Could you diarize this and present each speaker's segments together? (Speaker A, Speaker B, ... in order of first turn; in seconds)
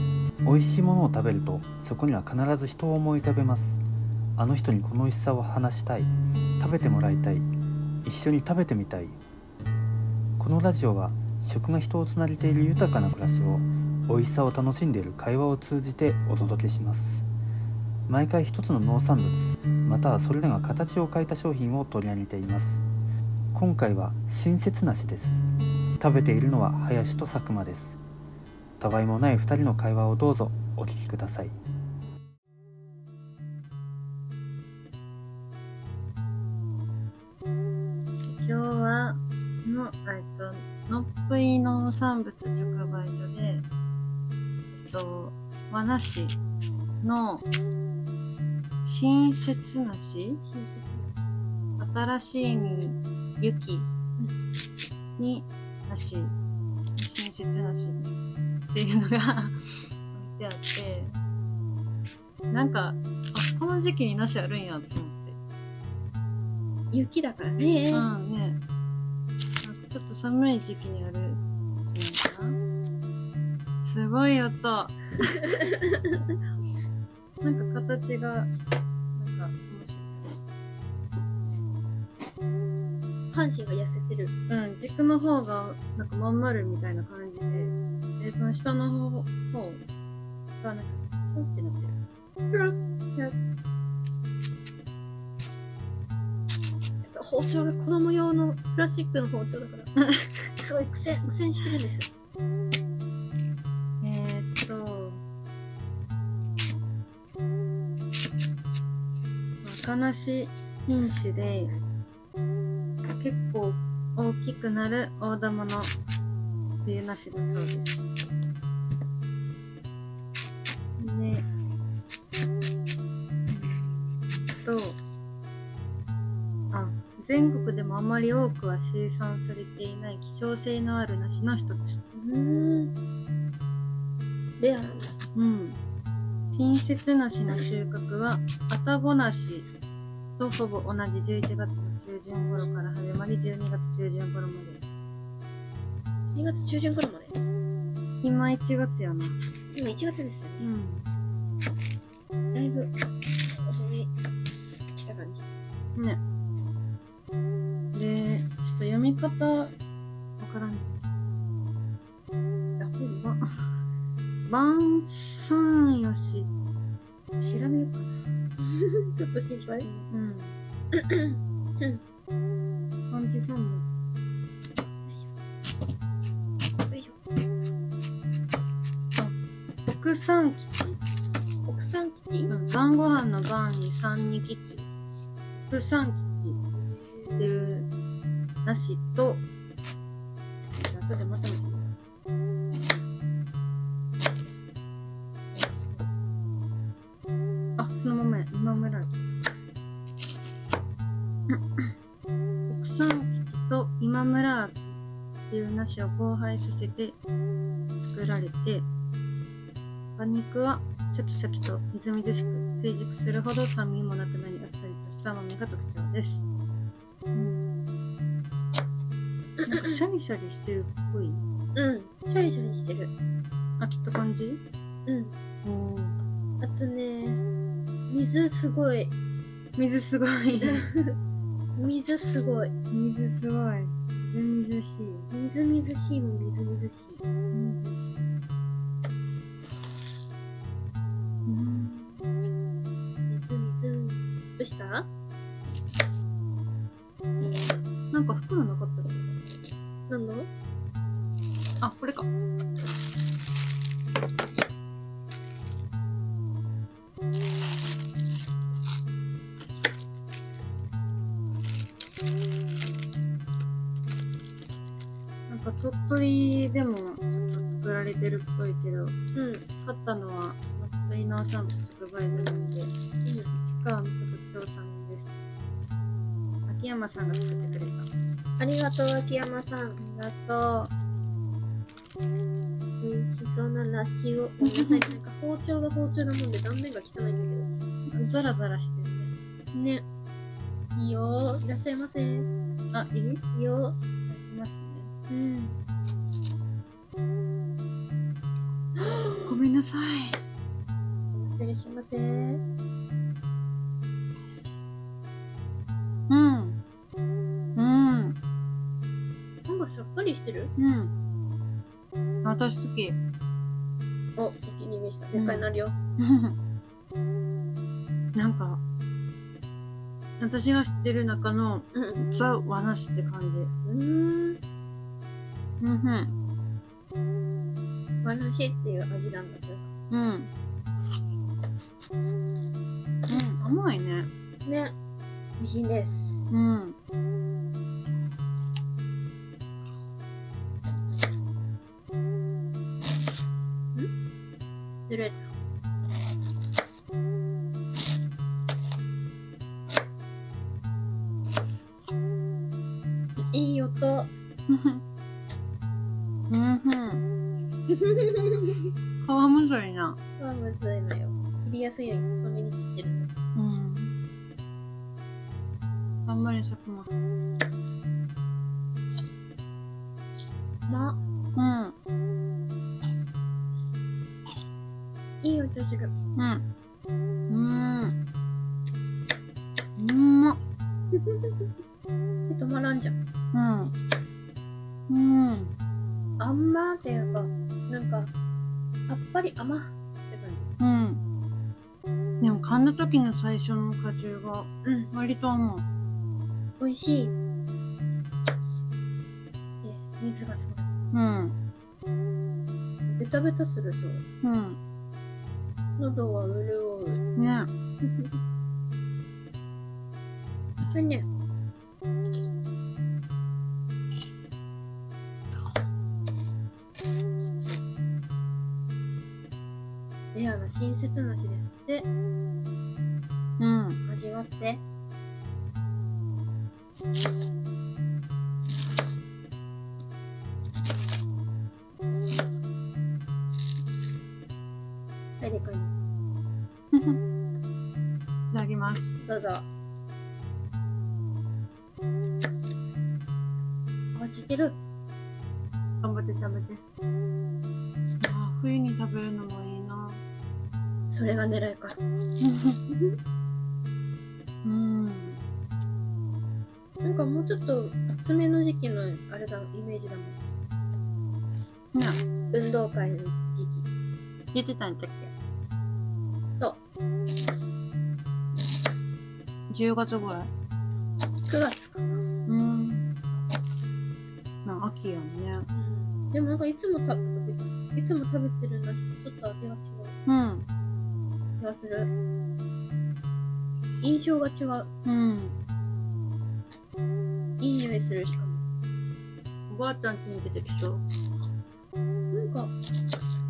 Speaker A: 0.5-3.8, 4.4-7.5, 8.0-9.2, 10.4-17.3, 18.1-22.8, 23.5-25.4, 26.0-28.0, 28.8-31.6
Speaker B: 38.2-43.7, 44.7-46.4, 47.0-47.5, 48.8-50.4, 51.8-53.9, 55.2-56.4, 57.0-58.1, 58.7-59.6, 60.1-61.1, 62.5-65.4, 67.9-68.6, 69.6-72.6, 73.8-75.3, 77.4-78.5, 79.2-80.4, 84.5-89.9, 90.6-92.0, 100.0-100.4, 104.0-105.2, 109.6-111.8, 113.1-115.9, 116.8-118.0, 121.0-121.4, 123.5-125.0, 126.7-132.0, 135.3-135.8, 136.5-139.7, 140.4-144.8, 148.2-149.4, 150.6-151.1, 156.0-156.2, 157.9-159.7, 160.4-161.1, 162.8-163.4, 164.5-166.5, 167.4-168.2, 169.8-170.6, 173.1-173.9, 179.9-181.0, 182.5-184.9, 185.7-186.6, 187.4-187.9, 188.7-189.4, 190.7-191.9, 197.8-199.3, 201.5-201.8, 202.7-207.2, 208.0-208.9, 210.2-216.4, 217.3-217.7, 219.6-221.4, 223.8-224.6, 225.6-226.2, 229.8-230.9, 232.9-235.3, 237.5-238.3, 241.5-242.3, 248.1-249.2, 251.8-252.3, 265.5-269.2, 269.8-272.9, 273.5-275.3, 276.7-278.1, 280.0-280.9, 284.6-285.1, 288.1-289.3, 292.9-293.4, 294.3-295.1, 299.0-300.4, 306.3-306.8, 307.8-308.4, 310.8-311.1, 312.4-313.2, 315.3-316.6, 318.4-318.8, 320.4-323.7, 325.8-326.3, 330.1-330.5, 333.3-334.3, 336.5-337.0, 354.7-355.0, 356.5-357.2, 359.2-360.2, 363.6-364.1, 366.3-367.1, 371.6-371.9, 376.4-376.6, 377.5-378.2, 380.0-380.6, 383.5-383.9, 385.1-385.8, 390.8-391.2, 392.4-395.9, 401.1-401.6, 404.4-404.8, 407.4-407.7, 423.6-424.0, 436.9-437.2, 438.5-439.1, 446.0-446.8, 448.2-450.2, 452.4-452.9, 454.6-455.4, 461.9-462.2, 464.5-465.3, 469.7-470.5, 472.5-473.1, 474.6-475.7, 480.3-480.6, 485.1-485.6, 489.7-491.0
Speaker C: 50.4-51.3, 66.9-68.1, 75.5-76.2, 83.3-84.3, 92.5-93.4, 97.0-99.9, 100.6-102.1, 132.1-132.9, 134.6-135.2, 146.3-147.4, 149.7-150.7, 152.5-152.9, 153.5-154.1, 154.9-155.5, 168.6-169.9, 170.9-172.0, 176.9-177.2, 181.7-182.5, 186.8-187.5, 219.6-220.0, 221.8-223.1, 225.1-225.3, 226.6-227.4, 228.1-229.1, 230.6-231.2, 231.8-232.7, 235.3-237.3, 243.3-245.1, 250.1-250.5, 269.3-269.7, 273.2-273.5, 278.6-280.0, 283.0-287.7, 289.7-290.1, 290.9-292.5, 293.5-294.0, 295.3-295.8, 299.2-299.6, 301.3-302.6, 309.7-310.7, 314.4-316.0, 321.9-322.2, 323.9-324.6, 328.2-329.9, 334.6-334.9, 335.6-336.5, 345.1-345.5, 353.4-354.3, 357.9-358.9, 360.4-363.3, 370.9-371.2, 375.4-376.1, 381.2-381.6, 382.5-383.2, 386.4-388.3, 389.1-390.7, 394.8-395.1, 396.8-397.4, 399.8-400.9, 403.1-404.2, 406.0-407.2, 410.9-411.3, 420.3-422.1, 424.0-424.8, 435.4-435.9, 439.2-439.7, 444.1-444.8, 451.1-452.0, 457.0-460.4, 462.5-463.9, 471.5-472.3, 475.7-480.2, 481.6-482.1, 484.0-484.9, 487.6-488.6, 492.3-492.7